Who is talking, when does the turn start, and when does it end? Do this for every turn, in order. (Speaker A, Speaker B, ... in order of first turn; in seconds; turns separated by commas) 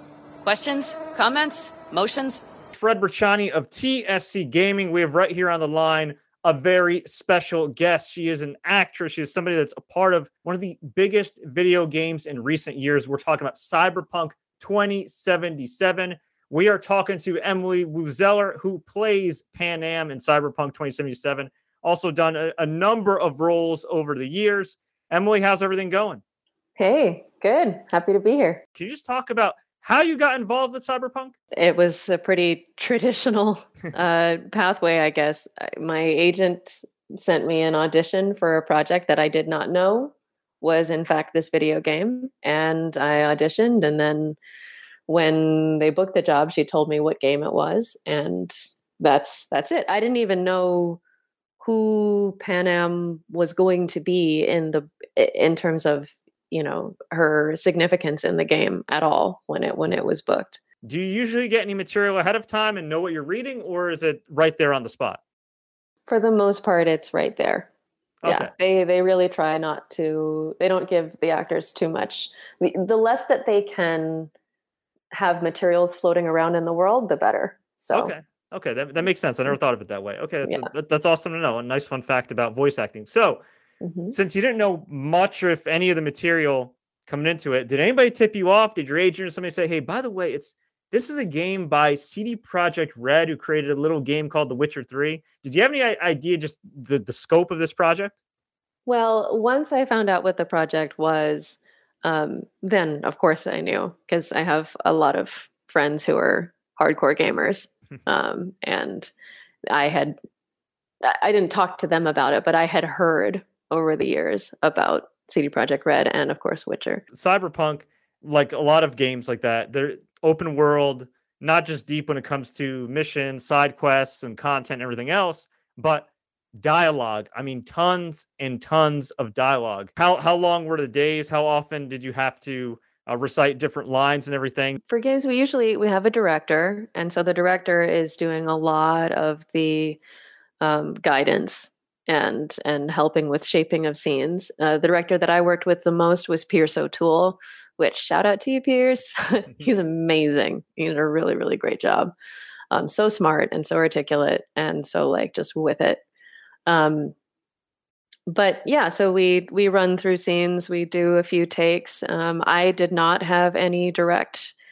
Speaker A: 0.4-2.5, Speaker B: 2.7-26.2, Speaker C: 26.8-28.6, Speaker B: 28.8-31.3, Speaker C: 31.5-44.4, Speaker C: 45.1-51.0, Speaker C: 51.6-60.6, Speaker B: 60.8-65.2, Speaker C: 66.1-67.7, Speaker B: 68.2-68.5, Speaker C: 68.2-74.3, Speaker C: 75.1-78.1, Speaker B: 77.9-83.4, Speaker C: 80.4-80.7, Speaker C: 83.8-84.1, Speaker B: 84.1-98.1, Speaker C: 98.8-109.1, Speaker C: 109.7-110.2, Speaker C: 111.0-117.0, Speaker B: 117.1-134.8, Speaker C: 134.9-140.0, Speaker C: 140.6-152.1, Speaker C: 152.7-156.0, Speaker C: 156.7-157.1, Speaker C: 158.3-164.5